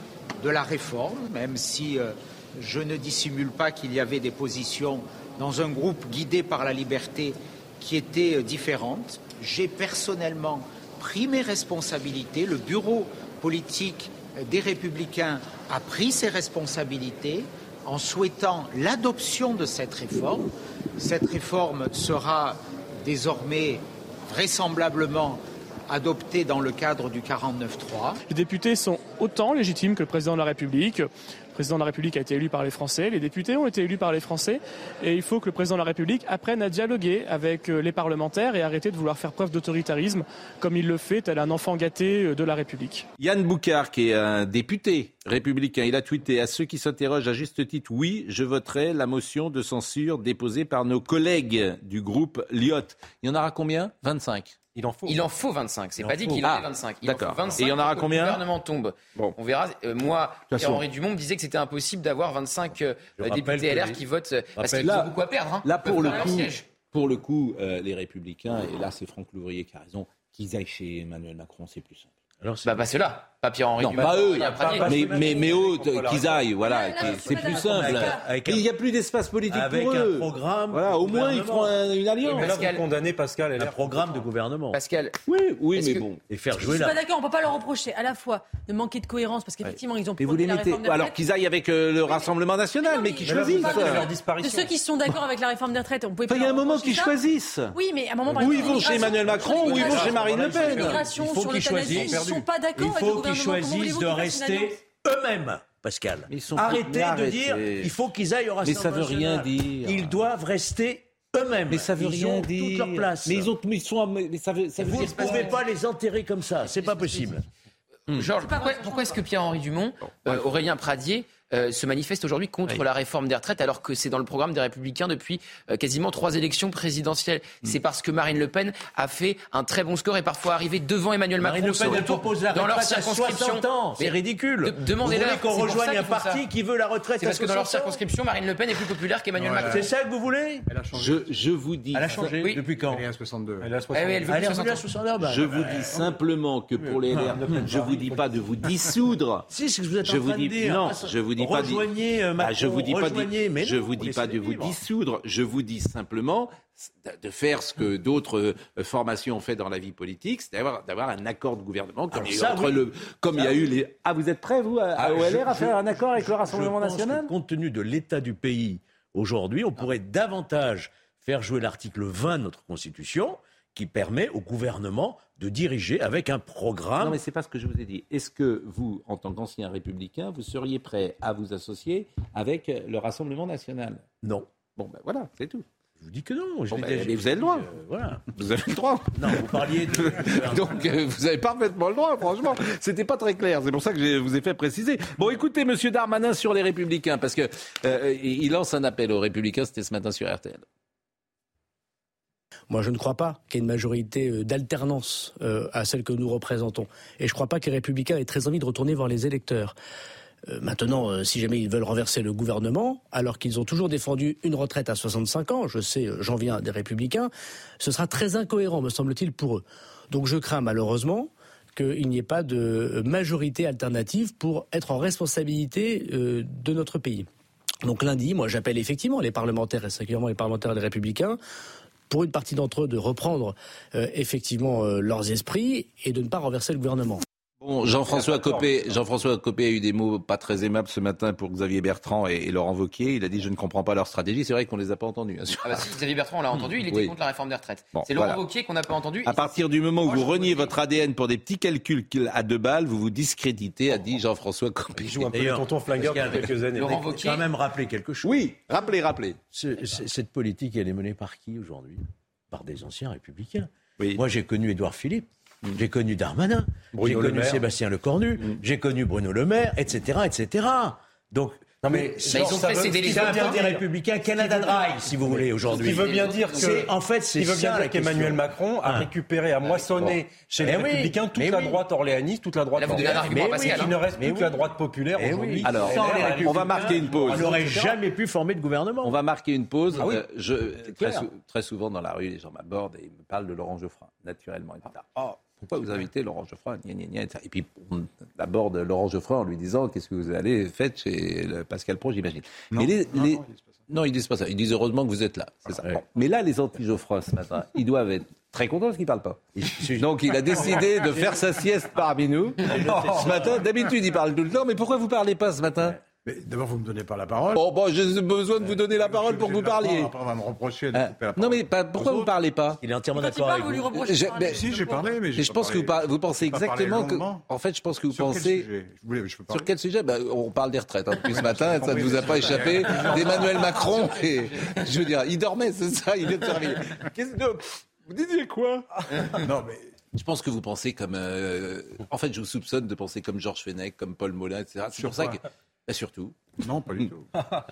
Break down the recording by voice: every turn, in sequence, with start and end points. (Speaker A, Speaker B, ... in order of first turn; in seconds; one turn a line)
Speaker A: 0.4-28.2
Speaker B: 28.3-43.1
Speaker C: 43.2-54.6
Speaker D: 54.8-55.2
Speaker E: 55.1-66.7
Speaker F: 56.0-56.5
Speaker C: 56.4-58.4
Speaker G: 60.5-60.8
Speaker F: 63.2-64.0
Speaker F: 64.6-65.0
Speaker C: 64.8-72.1
Speaker F: 72.4-72.9
Speaker E: 72.6-75.1
Speaker C: 73.8-82.5
Speaker D: 73.9-76.5
Speaker H: 76.6-78.2
Speaker F: 77.0-78.7
Speaker F: 79.5-81.8
Speaker E: 82.2-82.8
Speaker D: 82.3-84.2
Speaker F: 83.6-84.8
Speaker E: 84.7-85.2
Speaker C: 85.3-86.2
Speaker E: 85.7-86.1
Speaker F: 86.3-87.0
Speaker H: 86.6-91.2
Speaker C: 90.2-94.1
Speaker H: 92.8-97.2
Speaker D: 93.2-94.7
Speaker C: 96.3-97.8
Speaker H: 97.7-104.8
Speaker D: 98.3-102.3
Speaker C: 98.4-101.0
Speaker F: 101.2-113.5
Speaker C: 106.3-107.9
Speaker C: 108.6-110.3
Speaker C: 111.7-115.6
Speaker F: 114.8-117.4
Speaker H: 116.8-117.3
Speaker E: 118.1-136.4
Speaker H: 118.4-119.2
Speaker C: 120.0-120.4
Speaker F: 131.4-138.0
Speaker E: 137.2-139.9
Speaker G: 139.4-139.8
Speaker F: 139.6-140.7
Speaker G: 140.7-141.2
Speaker C: 140.9-142.3
Speaker F: 141.9-143.0
Speaker G: 142.0-143.7
Speaker E: 142.4-142.7
Speaker D: 143.6-144.8
Speaker E: 143.9-144.8
Speaker F: 144.2-146.1
Speaker C: 145.2-149.5
Speaker F: 147.1-147.5
Speaker D: 147.1-148.3
Speaker F: 149.5-154.8
Speaker C: 150.0-167.3
Speaker F: 162.1-162.9
Speaker F: 165.0-177.2
Speaker C: 177.0-184.1
Speaker F: 184.2-184.5
Speaker C: 184.8-185.7
Speaker F: 186.0-188.2
Speaker C: 186.7-187.7
Speaker C: 188.3-200.6
Speaker F: 189.1-190.9
Speaker I: 202.7-209.8
Speaker I: 210.5-227.3
Speaker I: 227.8-231.4
Speaker I: 232.1-237.2
Speaker C: 237.6-245.9
Speaker D: 238.1-238.8
Speaker E: 245.6-250.8
Speaker C: 246.9-247.1
Speaker C: 247.9-248.4
Speaker C: 249.2-255.2
Speaker D: 255.0-257.1
Speaker F: 255.1-258.4
Speaker E: 256.4-257.5
Speaker C: 258.2-259.4
Speaker F: 259.5-279.1
Speaker D: 267.0-267.6
Speaker D: 271.8-274.9
Speaker E: 272.3-273.7
Speaker E: 275.7-276.9
Speaker D: 275.7-287.9
Speaker F: 279.7-281.8
Speaker E: 282.8-284.0
Speaker F: 282.8-284.6
Speaker F: 285.1-289.1
Speaker C: 285.6-287.9
Speaker C: 289.0-316.0
Speaker D: 290.0-290.2
Speaker G: 302.7-303.8
Speaker F: 309.6-311.4
Speaker F: 312.6-313.6
Speaker G: 316.2-317.7
Speaker C: 317.6-320.1
Speaker G: 318.6-322.3
Speaker C: 320.9-322.8
Speaker F: 322.8-324.0
Speaker H: 323.1-325.1
Speaker C: 324.1-328.7
Speaker G: 324.4-327.4
Speaker G: 328.1-329.7
Speaker C: 329.5-339.3
Speaker G: 331.3-334.2
Speaker G: 339.4-339.9
Speaker C: 340.1-346.4
Speaker G: 345.0-345.4
Speaker G: 346.6-347.3